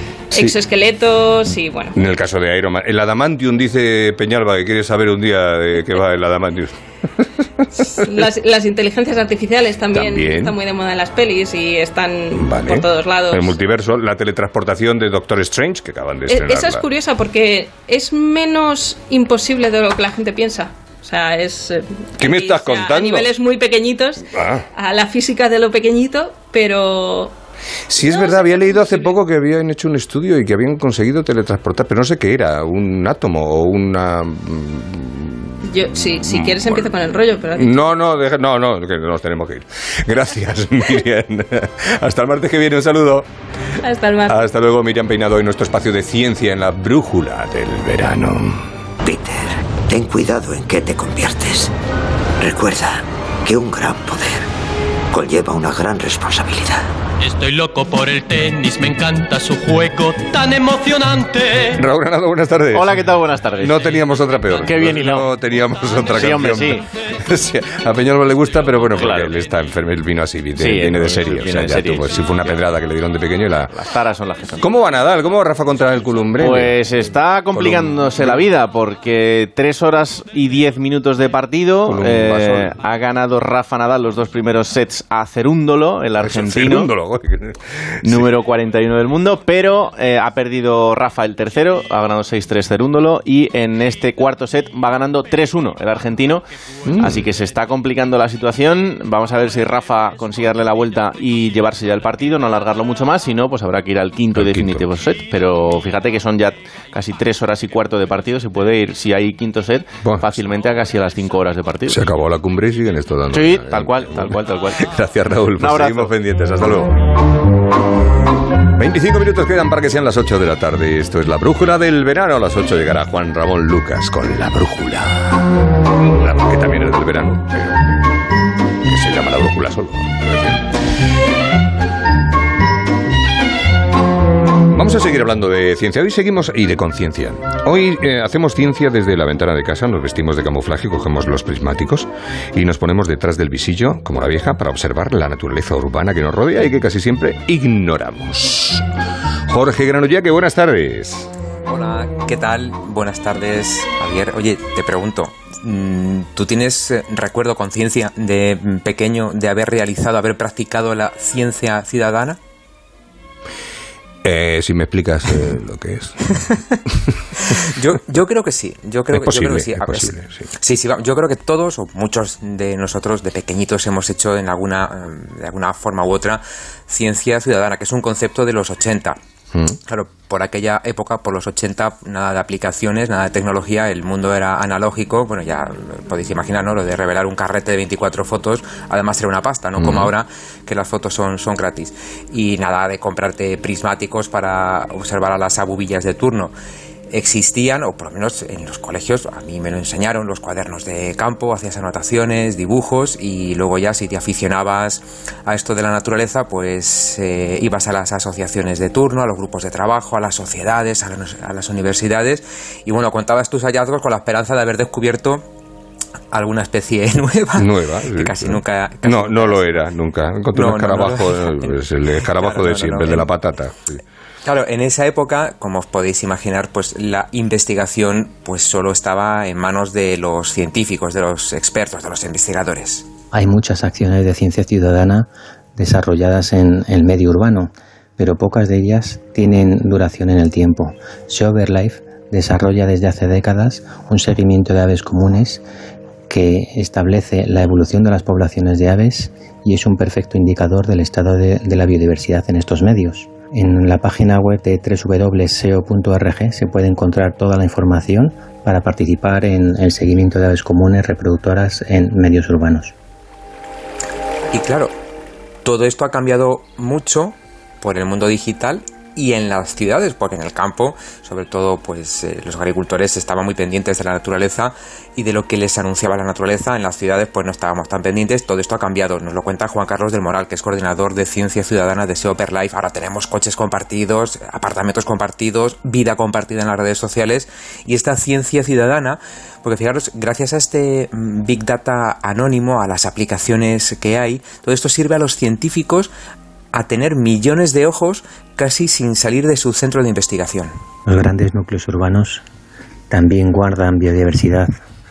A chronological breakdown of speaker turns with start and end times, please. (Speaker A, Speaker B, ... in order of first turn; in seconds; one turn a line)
Speaker A: 0.3-1.9
Speaker B: 1.9-6.7
Speaker B: 7.8-8.1
Speaker A: 8.0-13.5
Speaker B: 9.9-10.6
Speaker B: 12.3-16.9
Speaker A: 16.3-27.3
Speaker B: 22.2-23.3
Speaker B: 24.3-24.6
Speaker B: 27.9-36.9
Speaker A: 28.0-29.2
Speaker A: 35.7-37.9
Speaker B: 37.5-43.3
Speaker A: 43.8-44.4
Speaker B: 44.3-48.6
Speaker C: 49.0-51.7
Speaker C: 52.4-54.5
Speaker C: 55.1-56.8
Speaker D: 57.2-61.6
Speaker B: 61.8-63.0
Speaker E: 62.7-65.3
Speaker B: 63.6-73.8
Speaker E: 66.1-66.8
Speaker E: 68.9-69.4
Speaker E: 70.6-72.7
Speaker E: 73.7-74.7
Speaker B: 74.6-76.9
Speaker E: 76.4-86.9
Speaker B: 77.5-78.5
Speaker B: 81.8-82.8
Speaker B: 86.2-88.3
Speaker E: 88.0-112.0
Speaker B: 96.9-97.3
Speaker B: 104.3-104.9
Speaker B: 110.0-110.5
Speaker B: 111.9-117.0
Speaker E: 113.3-114.9
Speaker E: 115.6-116.1
Speaker B: 118.8-125.5
Speaker B: 126.1-127.8
Speaker B: 128.9-130.6
Speaker B: 134.7-148.8
Speaker B: 149.5-151.3
Speaker F: 151.7-162.4
Speaker B: 164.2-166.2
Speaker F: 167.8-179.2
Speaker B: 169.1-170.5
Speaker F: 179.9-196.5
Speaker B: 189.8-190.1
Speaker F: 197.1-215.4
Speaker F: 216.3-219.7
Speaker B: 217.6-224.0
Speaker F: 220.5-223.3
Speaker F: 224.4-233.1
Speaker G: 233.3-245.6
Speaker G: 246.3-262.9
Speaker F: 264.5-264.9
Speaker F: 265.6-296.1
Speaker F: 296.7-300.7
Speaker G: 301.1-302.4
Speaker G: 303.1-304.7